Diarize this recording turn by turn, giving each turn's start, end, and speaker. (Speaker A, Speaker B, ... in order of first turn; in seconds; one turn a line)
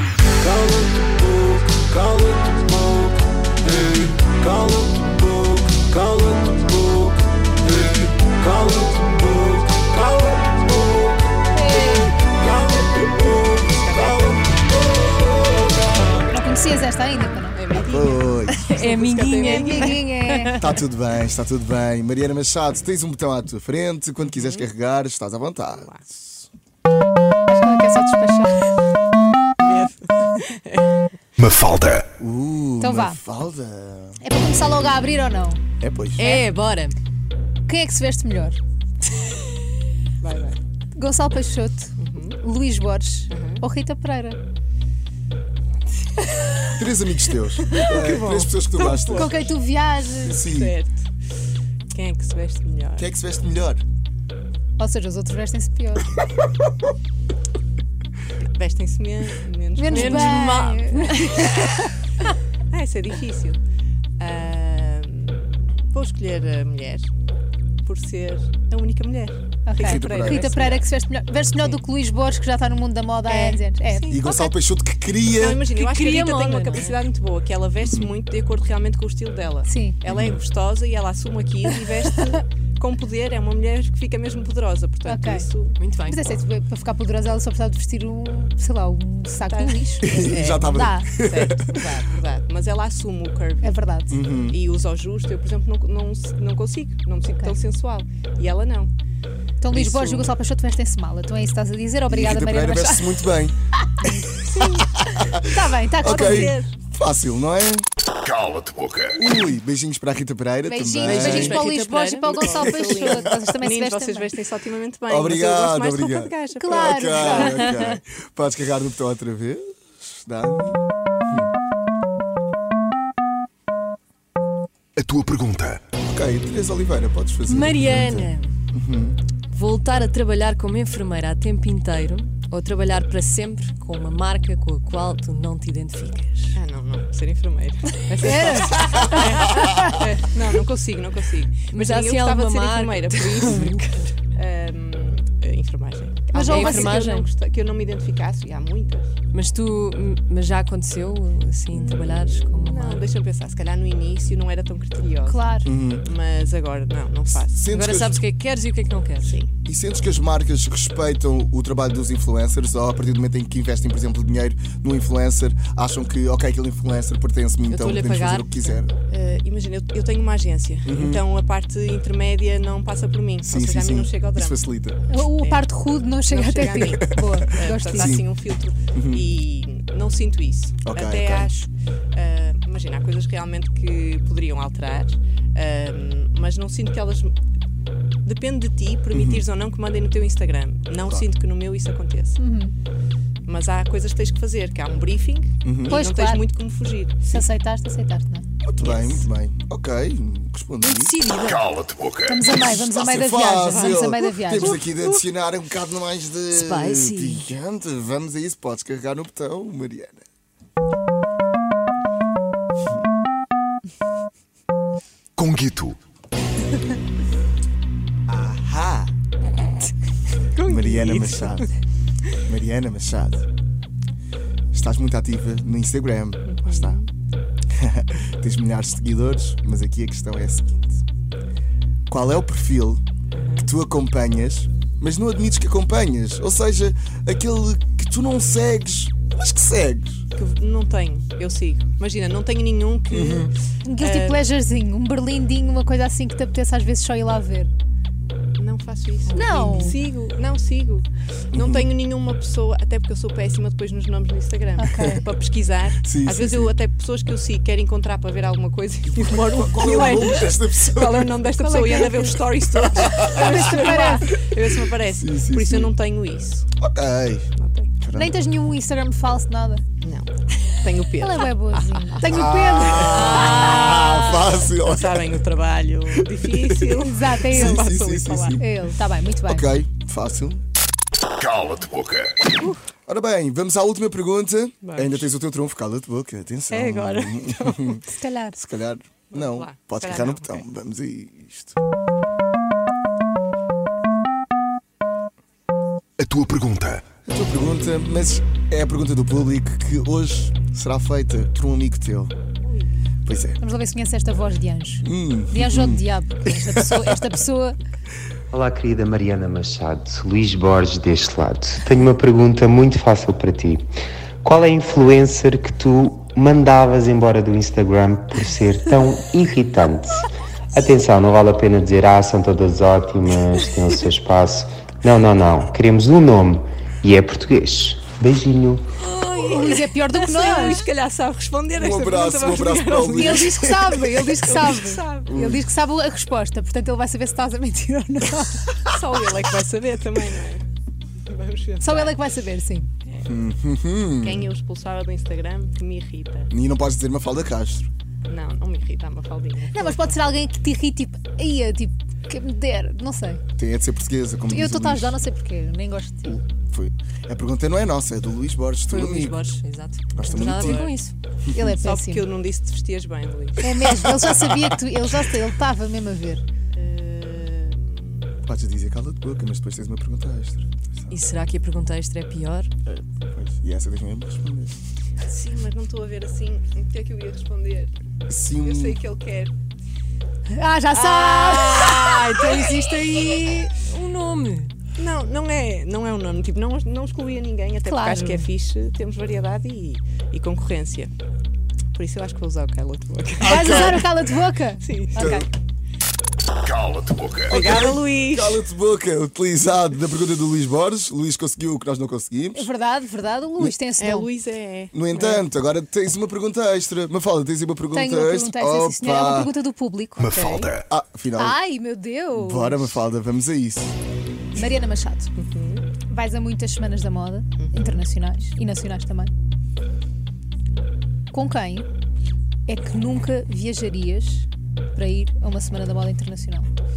Speaker A: 4.5-5.1
Speaker A: 6.0-6.7
Speaker A: 8.6-9.4
Speaker B: 11.5-12.1
Speaker C: 11.7-14.6
Speaker C: 15.9-16.3
Speaker B: 16.3-17.6
Speaker C: 17.1-20.0
Speaker A: 17.8-18.6
Speaker D: 18.6-20.6
Speaker B: 19.4-20.6
Speaker A: 20.6-26.5
Speaker C: 24.3-24.7
Speaker C: 25.7-26.0
Speaker B: 27.5-28.7
Speaker C: 29.6-31.0
Speaker E: 31.4-32.1
Speaker A: 32.2-34.2
Speaker B: 32.8-33.2
Speaker B: 34.2-35.6
Speaker A: 35.8-36.3
Speaker D: 36.2-37.0
Speaker B: 37.7-38.6
Speaker C: 40.2-40.6
Speaker B: 41.0-44.4
Speaker C: 42.0-42.4
Speaker C: 43.3-43.6
Speaker A: 46.7-49.6
Speaker C: 47.6-49.4
Speaker B: 49.1-50.4
Speaker A: 50.1-50.7
Speaker C: 50.5-51.0
Speaker C: 51.9-53.1
Speaker A: 53.0-53.8
Speaker B: 54.8-56.1
Speaker C: 58.5-61.1
Speaker B: 59.8-61.8
Speaker D: 59.9-61.3
Speaker C: 62.7-63.6
Speaker C: 64.2-67.1
Speaker C: 67.8-70.9
Speaker B: 69.7-74.5
Speaker A: 69.8-70.5
Speaker C: 73.3-74.3
Speaker A: 74.1-75.6
Speaker C: 75.3-85.8
Speaker D: 75.7-77.0
Speaker A: 77.9-78.1
Speaker B: 79.7-80.0
Speaker A: 80.1-80.4
Speaker B: 85.0-85.5
Speaker D: 85.8-86.2
Speaker B: 86.0-91.1
Speaker C: 89.4-98.9
Speaker A: 90.0-91.8
Speaker B: 93.6-94.2
Speaker A: 94.1-94.6
Speaker B: 99.6-103.3
Speaker C: 99.7-100.3
Speaker A: 102.1-103.6
Speaker A: 105.1-107.9
Speaker B: 105.4-106.6
Speaker C: 106.0-106.7
Speaker E: 108.2-109.1
Speaker A: 109.2-111.6
Speaker B: 110.7-114.3
Speaker D: 111.0-112.3
Speaker C: 112.2-117.6
Speaker A: 112.5-113.3
Speaker A: 115.1-121.5
Speaker B: 116.6-117.7
Speaker E: 125.0-125.8
Speaker A: 126.0-129.2
Speaker D: 127.5-128.6
Speaker D: 129.5-136.6
Speaker C: 136.6-143.8
Speaker D: 138.1-139.0
Speaker B: 138.2-140.0
Speaker D: 141.7-144.1
Speaker C: 144.3-149.2
Speaker B: 146.3-147.1
Speaker D: 146.4-147.2
Speaker D: 149.3-153.1
Speaker C: 151.7-155.5
Speaker B: 155.3-155.7
Speaker A: 155.6-156.1
Speaker C: 156.0-157.6
Speaker A: 157.3-158.2
Speaker D: 157.7-159.4
Speaker C: 159.2-159.5
Speaker A: 159.6-168.9
Speaker D: 167.7-168.8
Speaker C: 169.1-175.7
Speaker A: 170.8-171.2
Speaker A: 173.4-175.0
Speaker B: 175.1-178.2
Speaker C: 176.3-187.3
Speaker A: 176.8-177.1
Speaker A: 177.9-178.3
Speaker A: 178.9-179.3
Speaker A: 180.8-181.6
Speaker C: 188.3-192.4
Speaker A: 189.1-189.4
Speaker B: 192.4-192.8
Speaker C: 193.5-197.5
Speaker A: 195.6-196.0
Speaker B: 195.9-196.5
Speaker B: 197.3-198.5
Speaker A: 198.6-201.2
Speaker C: 198.8-199.2
Speaker D: 200.8-201.9
Speaker E: 201.6-202.2
Speaker B: 202.2-204.8
Speaker A: 202.7-210.2
Speaker C: 203.7-205.2
Speaker D: 206.5-207.6
Speaker E: 215.4-216.0
Speaker A: 218.3-219.1
Speaker C: 220.5-221.7
Speaker A: 220.6-221.7
Speaker A: 222.4-223.5
Speaker A: 224.7-227.0
Speaker C: 226.5-227.1
Speaker A: 227.7-231.0
Speaker A: 232.1-233.0
Speaker C: 233.3-233.7
Speaker A: 233.6-240.2
Speaker C: 240.4-244.5
Speaker A: 243.1-243.5
Speaker B: 243.8-247.7
Speaker C: 248.6-266.7
Speaker B: 249.3-250.0
Speaker A: 251.5-251.9
Speaker B: 254.8-255.2
Speaker A: 256.0-256.7
Speaker A: 259.2-261.4
Speaker B: 261.5-262.4
Speaker A: 262.8-264.0
Speaker B: 263.2-264.3
Speaker A: 265.1-265.9
Speaker A: 266.8-268.4
Speaker C: 267.6-267.9
Speaker B: 268.1-269.9
Speaker C: 270.0-278.7
Speaker B: 271.2-273.6
Speaker A: 272.3-275.3
Speaker A: 276.8-278.7
Speaker B: 277.0-277.9
Speaker B: 278.6-279.7
Speaker A: 279.4-280.6
Speaker E: 281.4-282.3
Speaker A: 283.1-288.0
Speaker C: 284.8-285.3
Speaker C: 286.7-288.0
Speaker B: 288.1-288.6
Speaker A: 288.6-291.8
Speaker C: 289.3-290.6
Speaker E: 296.2-297.1
Speaker A: 297.2-302.3
Speaker C: 302.6-302.9
Speaker A: 303.3-303.6
Speaker B: 303.6-307.8
Speaker A: 305.0-307.1
Speaker F: 308.5-313.9
Speaker F: 314.4-328.9
Speaker C: 329.0-335.3
Speaker B: 329.3-330.9
Speaker A: 331.7-334.0
Speaker B: 333.2-338.9
Speaker A: 335.3-335.6
Speaker C: 338.9-340.6
Speaker C: 341.3-342.2
Speaker B: 341.8-342.9
Speaker A: 343.2-344.5
Speaker C: 344.2-346.5
Speaker A: 346.5-347.9
Speaker C: 348.3-350.2
Speaker B: 349.7-353.4
Speaker A: 353.6-355.2
Speaker B: 354.5-356.4
Speaker A: 356.2-359.4
Speaker D: 358.9-361.1
Speaker A: 360.1-360.9
Speaker C: 360.2-361.0
Speaker B: 361.5-362.3
Speaker C: 361.7-363.7
Speaker B: 363.6-366.4
Speaker C: 366.7-368.3
Speaker A: 368.5-371.2
Speaker D: 371.1-372.7
Speaker A: 372.9-374.8
Speaker C: 375.3-377.9
Speaker A: 378.3-379.0
Speaker C: 378.6-379.5
Speaker B: 380.5-383.4
Speaker C: 380.9-382.8
Speaker D: 381.7-384.7
Speaker C: 385.0-391.1
Speaker B: 387.8-388.5
Speaker C: 391.9-394.1
Speaker A: 393.4-394.1
Speaker B: 393.4-395.5
Speaker C: 394.8-395.5
Speaker A: 395.2-395.5
Speaker E: 396.7-397.4
Speaker C: 397.5-398.6
Speaker A: 397.5-402.7
Speaker B: 402.5-404.3
Speaker C: 404.0-405.5
Speaker A: 404.9-409.5
Speaker B: 407.9-410.4
Speaker E: 410.2-410.8
Speaker C: 410.3-410.8
Speaker A: 410.8-411.6
Speaker B: 411.4-413.0
Speaker A: 412.3-413.9
Speaker B: 414.5-415.3
Speaker C: 415.4-415.9
Speaker B: 416.1-419.3
Speaker C: 417.6-418.0
Speaker B: 421.3-421.9
Speaker B: 422.7-426.7